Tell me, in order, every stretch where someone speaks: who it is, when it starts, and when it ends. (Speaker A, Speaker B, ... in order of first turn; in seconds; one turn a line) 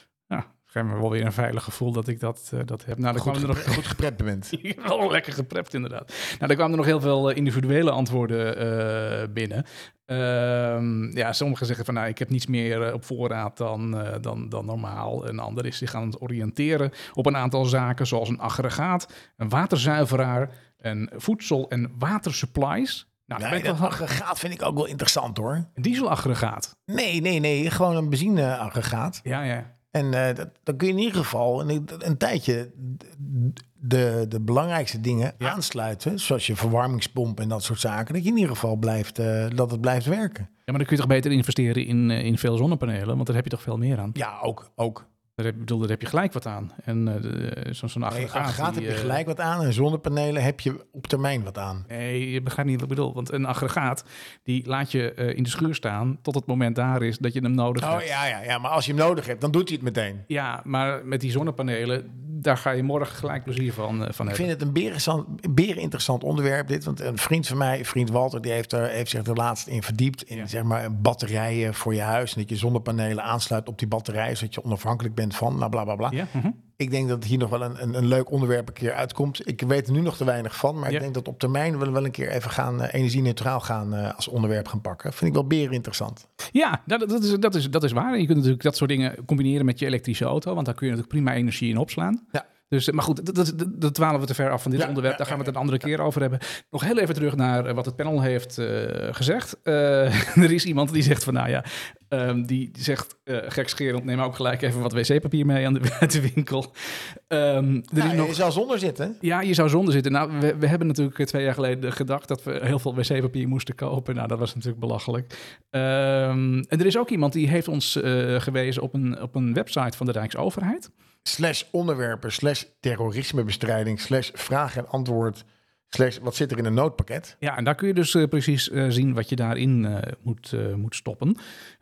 Speaker A: 0.3-4.0
Speaker B: 3.1-4.5
Speaker A: 4.5-24.0
Speaker B: 23.4-25.7
Speaker A: 25.8-26.7
Speaker B: 26.9-29.2
Speaker A: 29.2-29.7
Speaker B: 29.9-40.5
Speaker A: 40.7-44.2
Speaker B: 44.1-45.1
Speaker A: 45.4-49.2
Speaker B: 48.1-51.9
Speaker A: 51.9-58.1
Speaker B: 57.8-60.2
Speaker A: 60.3-64.5
Speaker B: 64.2-76.2
Speaker A: 76.1-76.6
Speaker B: 76.8-86.3
Speaker A: 86.5-108.4
Speaker B: 94.8-95.5
Speaker B: 108.0-109.2
Speaker A: 109.2-120.9
Speaker B: 121.2-127.3
Speaker A: 127.4-131.4